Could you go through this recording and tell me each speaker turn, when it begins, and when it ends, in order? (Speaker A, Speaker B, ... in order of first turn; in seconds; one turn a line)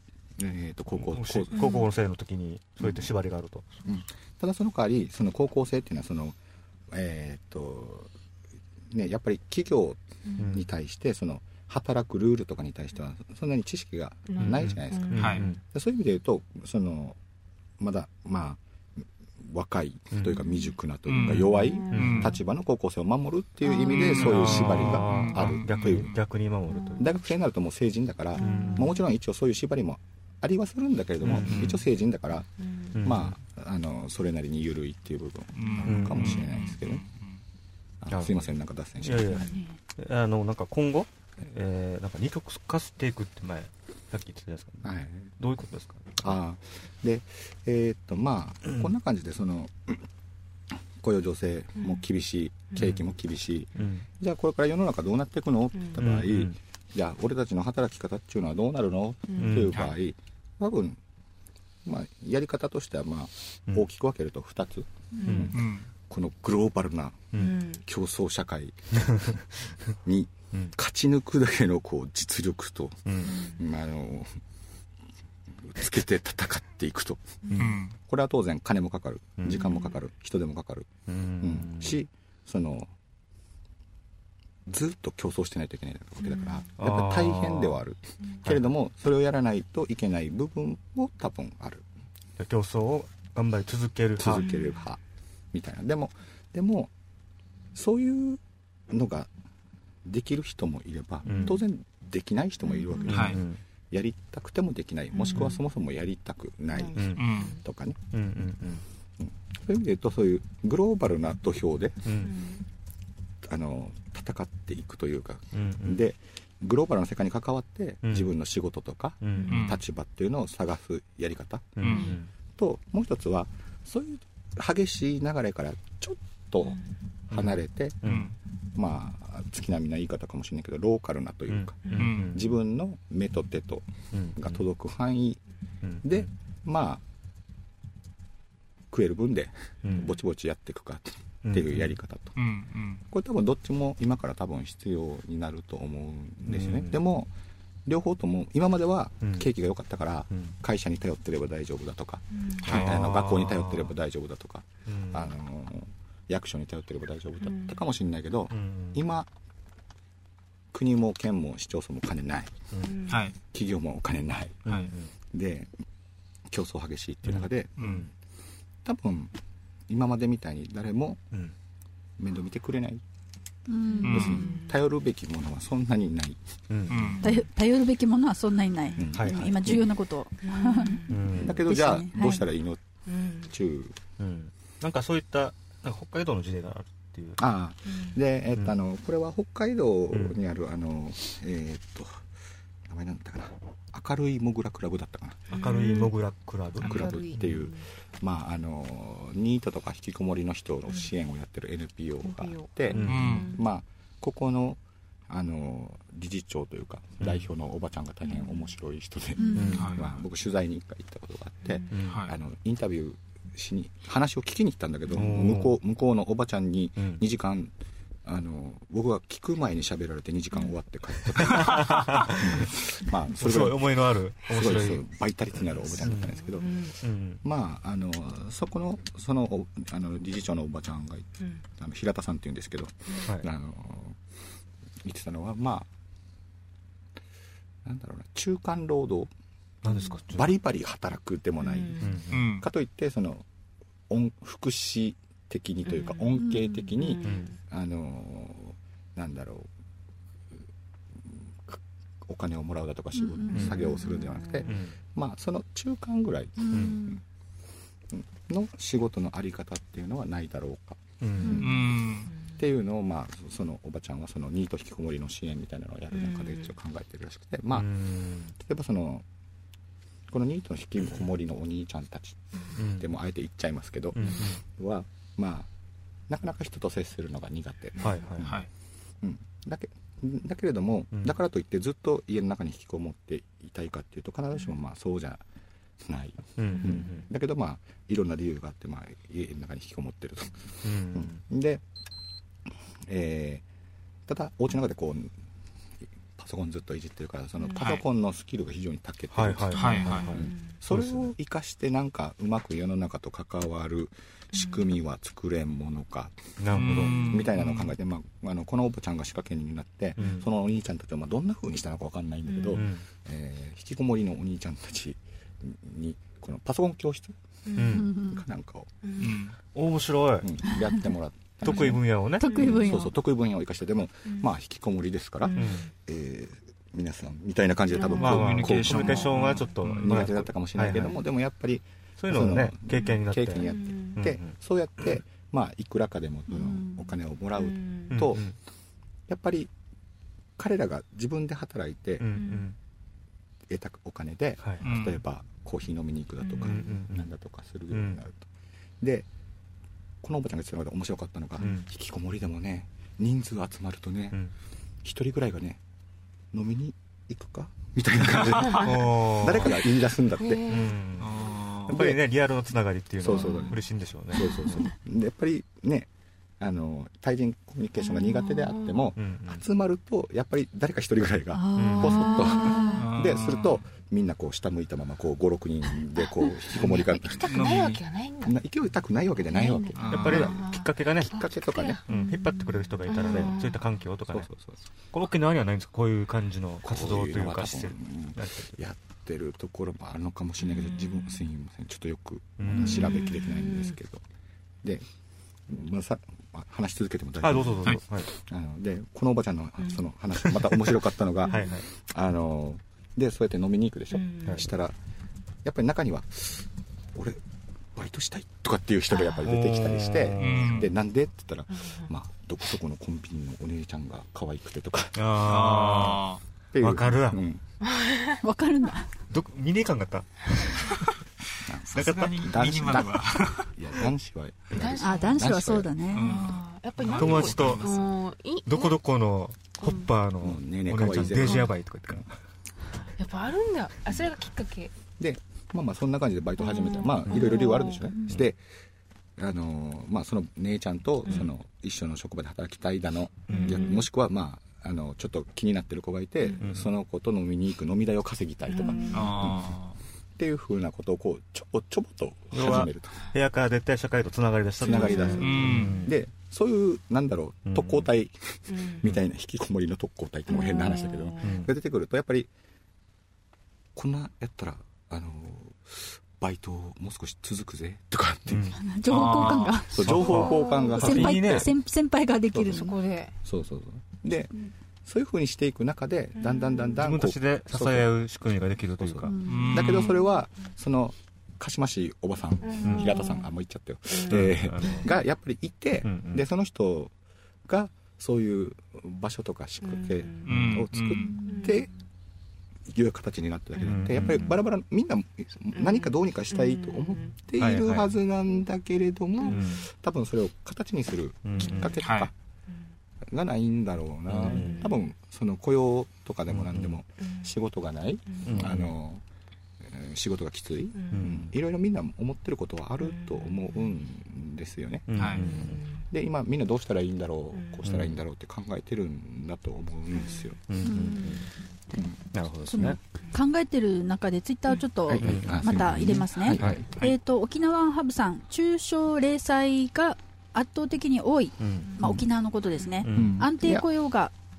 Speaker A: 0.4-1.6
Speaker B: 0.9-3.6
Speaker C: 1.5-1.9
Speaker A: 2.8-3.1
Speaker A: 3.9-6.4
Speaker A: 6.9-8.1
Speaker A: 8.9-17.2
Speaker C: 10.3-10.6
Speaker B: 10.4-10.7
Speaker C: 14.3-15.5
Speaker B: 14.4-15.6
Speaker D: 15.2-15.5
Speaker A: 17.8-18.6
Speaker A: 19.4-26.2
Speaker B: 20.1-20.4
Speaker D: 21.1-22.4
Speaker B: 21.3-22.4
Speaker C: 21.5-22.4
Speaker C: 23.6-24.3
Speaker D: 23.9-26.2
Speaker B: 24.1-27.1
Speaker C: 26.7-27.1
Speaker A: 27.0-32.5
Speaker C: 28.4-29.0
Speaker B: 28.4-28.9
Speaker B: 31.2-31.8
Speaker C: 32.6-33.1
Speaker B: 33.0-33.4
Speaker A: 33.0-37.0
Speaker D: 35.5-37.4
Speaker C: 35.7-36.0
Speaker B: 35.8-36.5
Speaker A: 38.0-39.5
Speaker B: 38.1-38.5
Speaker B: 39.0-44.9
Speaker A: 44.8-45.3
Speaker B: 45.4-46.3
Speaker A: 46.2-50.0
Speaker A: 51.0-61.0
Speaker C: 51.8-52.0
Speaker B: 52.8-53.0
Speaker B: 53.8-54.0
Speaker B: 56.0-56.6
Speaker C: 59.3-59.7
Speaker B: 59.4-59.9
Speaker D: 59.7-60.0
Speaker A: 61.9-68.8
Speaker C: 65.2-65.5
Speaker B: 65.3-65.5
Speaker D: 65.5-65.9
Speaker C: 67.3-67.8
Speaker B: 68.9-69.6
Speaker A: 70.0-74.4
Speaker B: 73.1-73.5
Speaker A: 75.6-80.9
Speaker D: 77.5-78.0
Speaker B: 79.4-79.8
Speaker C: 79.5-80.0
Speaker B: 81.1-82.0
Speaker A: 81.4-82.9
Speaker A: 84.7-91.8
Speaker C: 86.2-86.7
Speaker B: 86.8-87.8
Speaker B: 88.5-88.7
Speaker B: 92.4-94.5
Speaker A: 94.2-95.0
Speaker C: 94.4-94.8
Speaker A: 95.5-96.9
Speaker A: 97.8-99.3
Speaker A: 100.0-108.0
Speaker B: 101.2-101.6
Speaker C: 101.3-101.6
Speaker C: 102.7-103.0
Speaker B: 103.0-103.6
Speaker D: 103.1-103.4
Speaker C: 105.1-105.6
Speaker C: 106.7-107.6
Speaker B: 107.0-107.4
Speaker D: 107.2-107.5
Speaker B: 108.1-108.8
Speaker A: 109.2-112.2
Speaker B: 112.0-112.3
Speaker C: 112.2-112.6
Speaker A: 113.4-121.8
Speaker B: 115.5-116.0
Speaker B: 118.0-118.3
Speaker B: 119.2-119.7
Speaker D: 119.5-119.8
Speaker B: 121.8-122.3
Speaker D: 121.8-122.1
Speaker C: 121.9-122.2
Speaker A: 122.6-128.1
Speaker B: 127.3-128.3
Speaker D: 128.0-128.3
Speaker A: 128.8-135.4
Speaker B: 131.5-132.6
Speaker C: 131.8-132.1
Speaker D: 131.9-132.3
Speaker B: 134.1-134.7
Speaker B: 135.8-136.2
Speaker A: 136.0-137.0
Speaker A: 138.9-142.3
Speaker B: 139.8-140.2
Speaker B: 141.4-142.0
Speaker D: 142.3-143.0
Speaker A: 143.1-147.3
Speaker B: 146.5-147.1
Speaker A: 147.9-159.3
Speaker B: 149.2-149.5
Speaker B: 152.6-153.9
Speaker D: 152.6-152.9
Speaker B: 154.9-155.3
Speaker C: 157.4-157.8
Speaker B: 158.5-159.0
Speaker A: 160.7-162.6
Speaker C: 162.8-163.3
Speaker D: 163.1-163.3
Speaker A: 163.5-164.6
Speaker B: 164.7-165.1
Speaker A: 165.3-165.7
Speaker A: 166.5-168.0
Speaker B: 167.2-168.1
Speaker D: 167.8-168.1
Speaker A: 168.8-169.3
Speaker A: 169.9-171.2
Speaker A: 172.2-173.0
Speaker E: 173.7-174.5
Speaker C: 173.9-174.8
Speaker D: 174.0-174.4
Speaker A: 174.1-176.4
Speaker B: 176.7-177.2
Speaker D: 176.9-177.3
Speaker C: 177.2-177.4
Speaker E: 177.2-181.0
Speaker A: 179.0-179.8
Speaker B: 179.1-179.8
Speaker C: 180.4-181.5
Speaker B: 181.1-181.7
Speaker A: 181.3-182.8
Speaker E: 181.7-182.4
Speaker C: 183.1-183.5
Speaker A: 183.5-183.9
Speaker B: 184.2-187.4
Speaker A: 187.4-192.2
Speaker C: 187.9-188.2
Speaker B: 190.1-190.4
Speaker A: 192.9-195.6
Speaker C: 195.5-196.2
Speaker B: 195.5-197.7
Speaker D: 196.8-197.1
Speaker A: 196.8-217.7
Speaker C: 196.8-197.9
Speaker C: 202.2-203.7
Speaker B: 202.9-203.5
Speaker D: 203.0-203.5
Speaker B: 207.2-207.5
Speaker C: 208.2-208.7
Speaker E: 209.4-209.9
Speaker B: 209.5-210.1
Speaker D: 209.8-210.1
Speaker B: 211.9-212.3
Speaker D: 212.1-212.3
Speaker B: 215.1-215.8
Speaker B: 217.0-217.2
Speaker A: 218.2-226.7
Speaker B: 221.4-222.7
Speaker B: 223.4-225.1
Speaker B: 226.0-226.4
Speaker C: 226.0-227.0
Speaker B: 227.0-227.4
Speaker A: 227.4-234.2
Speaker A: 235.0-235.9
Speaker A: 237.8-239.3
Speaker B: 239.8-240.6
Speaker A: 240.3-243.4
Speaker C: 241.6-242.3
Speaker B: 242.0-242.5
Speaker D: 242.3-242.7
Speaker A: 244.1-249.7
Speaker C: 245.9-247.6
Speaker E: 246.4-246.9
Speaker B: 247.2-247.5
Speaker A: 251.2-257.2
Speaker E: 253.2-253.7
Speaker C: 253.4-254.7
Speaker B: 253.5-253.9
Speaker B: 254.7-254.9
Speaker E: 256.6-257.2
Speaker B: 256.7-257.0
Speaker A: 258.1-261.0
Speaker B: 261.2-261.8
Speaker E: 261.4-261.8
Speaker D: 261.6-262.3
Speaker C: 262.3-262.6
Speaker A: 262.6-268.0
Speaker C: 266.1-266.7
Speaker B: 267.7-268.5
Speaker A: 268.5-269.2
Speaker A: 270.3-275.7
Speaker B: 272.8-273.1
Speaker B: 274.1-274.6
Speaker C: 274.2-274.5
Speaker A: 276.3-278.6
Speaker B: 278.0-278.7
Speaker D: 278.4-278.7
Speaker A: 279.2-285.4
Speaker B: 281.1-281.4
Speaker A: 286.0-291.8
Speaker B: 286.6-287.3
Speaker B: 290.8-291.4
Speaker A: 293.1-293.6
Speaker A: 294.3-295.3
Speaker A: 296.4-318.9
Speaker D: 297.8-298.0
Speaker B: 299.3-301.3
Speaker D: 299.7-300.3
Speaker C: 299.9-300.8
Speaker C: 304.5-304.9
Speaker B: 306.6-307.4
Speaker D: 306.7-307.9
Speaker C: 307.0-307.5
Speaker B: 310.2-310.4
Speaker C: 312.5-312.9
Speaker B: 312.7-313.1
Speaker C: 317.7-318.1
Speaker B: 317.8-318.1
Speaker E: 317.9-318.4
Speaker C: 319.0-319.5
Speaker D: 319.2-319.6
Speaker B: 319.7-320.5
Speaker A: 320.4-338.5
Speaker B: 321.6-322.5
Speaker C: 321.7-322.9
Speaker E: 322.4-323.1
Speaker C: 324.3-324.5
Speaker C: 325.4-325.9
Speaker B: 325.6-325.9
Speaker C: 327.9-328.5
Speaker D: 328.2-330.3
Speaker B: 328.2-331.2
Speaker B: 332.2-334.5
Speaker C: 332.9-334.2
Speaker C: 337.5-338.3
Speaker B: 338.1-338.6
Speaker A: 339.3-339.7
Speaker A: 340.6-342.3
Speaker B: 342.2-342.8
Speaker C: 342.4-342.7
Speaker A: 343.7-348.4
Speaker D: 344.8-345.2
Speaker C: 346.4-347.1
Speaker B: 346.6-347.3
Speaker B: 347.9-348.2
Speaker A: 349.0-349.3
Speaker A: 350.2-354.4
Speaker B: 351.6-351.9
Speaker A: 355.0-355.8
Speaker A: 356.5-360.9
Speaker B: 358.8-359.9
Speaker C: 360.4-361.0
Speaker B: 360.7-364.5
Speaker D: 361.2-362.0
Speaker A: 361.9-362.2
Speaker A: 363.2-363.8
Speaker C: 363.4-363.8
Speaker C: 364.3-364.8
Speaker A: 364.4-366.1
Speaker A: 366.6-377.8
Speaker C: 368.0-369.1
Speaker B: 369.2-369.6
Speaker E: 371.5-373.1
Speaker B: 371.8-372.4
Speaker C: 371.9-373.1
Speaker D: 373.0-373.8
Speaker C: 376.1-378.6
Speaker D: 377.5-378.0
Speaker A: 378.5-380.6
Speaker C: 379.5-383.9
Speaker D: 380.0-380.5
Speaker B: 380.1-381.4
Speaker A: 381.3-382.0
Speaker B: 382.1-384.5
Speaker A: 384.3-384.8
Speaker B: 385.1-388.7
Speaker A: 386.8-394.2
Speaker C: 390.6-391.4
Speaker B: 392.6-393.2
Speaker C: 392.8-393.9
Speaker A: 395.7-404.9
Speaker B: 397.4-398.3
Speaker B: 400.6-400.9
Speaker C: 401.4-401.8
Speaker B: 401.5-401.9
Speaker C: 404.1-404.7
Speaker A: 405.6-407.4
Speaker A: 407.9-415.8
Speaker C: 409.1-409.4
Speaker B: 409.4-410.9
Speaker D: 410.4-410.9
Speaker C: 411.7-412.1
Speaker B: 415.1-416.3
Speaker D: 415.4-416.4
Speaker A: 416.7-417.6
Speaker B: 416.8-417.4
Speaker C: 417.8-418.4
Speaker E: 418.4-419.1
Speaker B: 419.3-421.0
Speaker A: 421.7-425.9
Speaker D: 421.9-423.7
Speaker B: 421.9-422.7
Speaker C: 424.7-425.6
Speaker E: 425.0-426.4
Speaker D: 426.1-428.1
Speaker C: 426.2-429.0
Speaker B: 427.1-427.8
Speaker B: 428.7-432.3
Speaker C: 429.8-430.1
Speaker A: 430.4-432.2
Speaker C: 433.2-434.9
Speaker A: 435.2-438.6
Speaker C: 436.6-438.1
Speaker A: 439.4-449.8
Speaker B: 443.5-443.9
Speaker C: 443.5-444.1
Speaker B: 446.6-446.9
Speaker C: 448.7-449.4
Speaker D: 449.1-450.0
Speaker A: 450.4-453.2
Speaker B: 452.5-456.2
Speaker C: 454.8-456.0
Speaker A: 454.8-462.5
Speaker D: 455.4-456.0
Speaker B: 457.7-458.1
Speaker C: 458.7-459.1
Speaker C: 460.5-461.7
Speaker B: 461.4-461.7
Speaker A: 463.9-468.8
Speaker B: 468.5-468.8
Speaker E: 468.8-472.9
Speaker D: 469.1-469.8
Speaker A: 469.9-471.7
Speaker B: 470.0-471.7
Speaker C: 470.1-471.0
Speaker C: 472.7-473.4
Speaker A: 473.4-474.5
Speaker A: 475.1-487.1
Speaker C: 476.4-477.0
Speaker B: 477.0-479.3
Speaker E: 479.3-479.9
Speaker D: 479.5-480.2
Speaker C: 479.9-480.2
Speaker C: 482.6-483.5
Speaker B: 482.8-483.3
Speaker C: 484.1-485.1
Speaker B: 484.3-485.1
Speaker B: 486.0-486.5
Speaker A: 487.7-491.9
Speaker C: 489.8-490.5
Speaker D: 490.5-491.4
Speaker B: 490.5-490.9
Speaker C: 491.4-491.9
Speaker A: 492.9-502.3
Speaker C: 493.8-494.3
Speaker B: 493.8-494.6
Speaker C: 495.7-497.4
Speaker B: 497.6-498.1
Speaker C: 499.4-499.7
Speaker B: 499.5-499.9
Speaker B: 501.4-502.0
Speaker D: 502.0-502.3
Speaker A: 503.3-509.2
Speaker B: 504.3-504.9
Speaker C: 504.5-505.0
Speaker B: 506.5-507.0
Speaker C: 507.2-507.5
Speaker C: 508.3-508.6
Speaker B: 508.4-508.9
Speaker A: 509.8-520.6
Speaker C: 511.0-511.4
Speaker B: 511.1-511.5
Speaker C: 513.0-513.9
Speaker B: 515.1-515.8
Speaker D: 515.2-515.4
Speaker C: 515.4-516.1
Speaker C: 517.5-517.9
Speaker B: 517.8-518.2
Speaker C: 520.1-520.6
Speaker B: 520.7-521.5
Speaker E: 520.8-521.4
Speaker B: 522.3-523.0
Speaker E: 522.7-534.3
Speaker A: 525.1-526.9
Speaker B: 525.2-526.8
Speaker B: 531.6-532.2
Speaker B: 533.0-533.5
Speaker A: 533.1-533.9